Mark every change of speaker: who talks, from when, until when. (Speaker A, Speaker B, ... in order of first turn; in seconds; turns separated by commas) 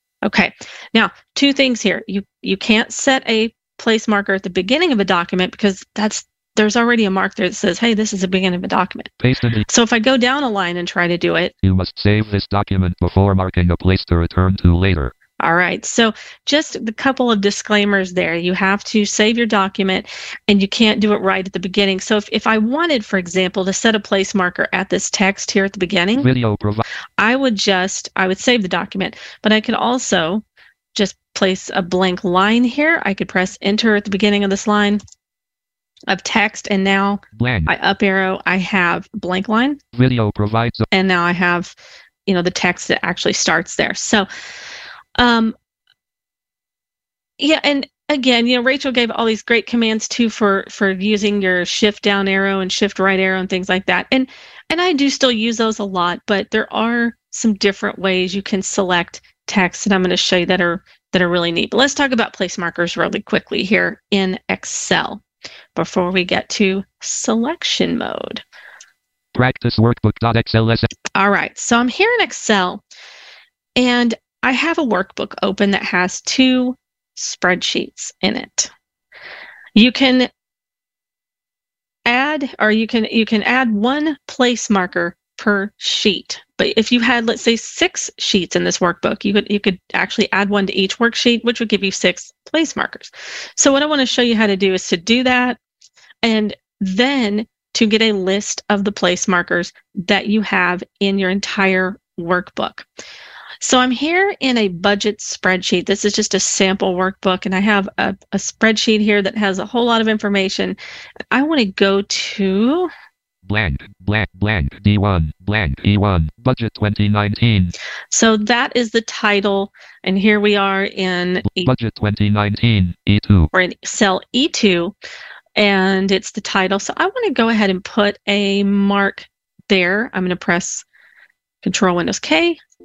Speaker A: 0.2-9.1, Speaker B: 9.2-9.7, Speaker A: 9.7-11.5, Speaker B: 11.6-15.1, Speaker A: 15.4-26.3, Speaker B: 26.2-26.8, Speaker A: 27.2-30.4, Speaker A: 30.9-35.0, Speaker A: 36.1-39.8, Speaker B: 37.4-37.7, Speaker B: 40.0-40.9, Speaker A: 40.9-41.7, Speaker A: 42.2-44.3, Speaker A: 45.2-45.5, Speaker A: 47.4-65.2, Speaker A: 65.8-68.4, Speaker B: 69.3-70.9, Speaker A: 71.1-72.8, Speaker A: 73.8-78.7, Speaker A: 79.8-80.3, Speaker A: 82.1-95.6, Speaker A: 96.2-102.8, Speaker A: 103.6-110.8, Speaker A: 111.3-112.9, Speaker B: 113.5-117.7, Speaker A: 118.1-121.7, Speaker B: 121.5-123.5, Speaker A: 123.5-124.9, Speaker A: 125.6-130.8, Speaker A: 131.6-132.6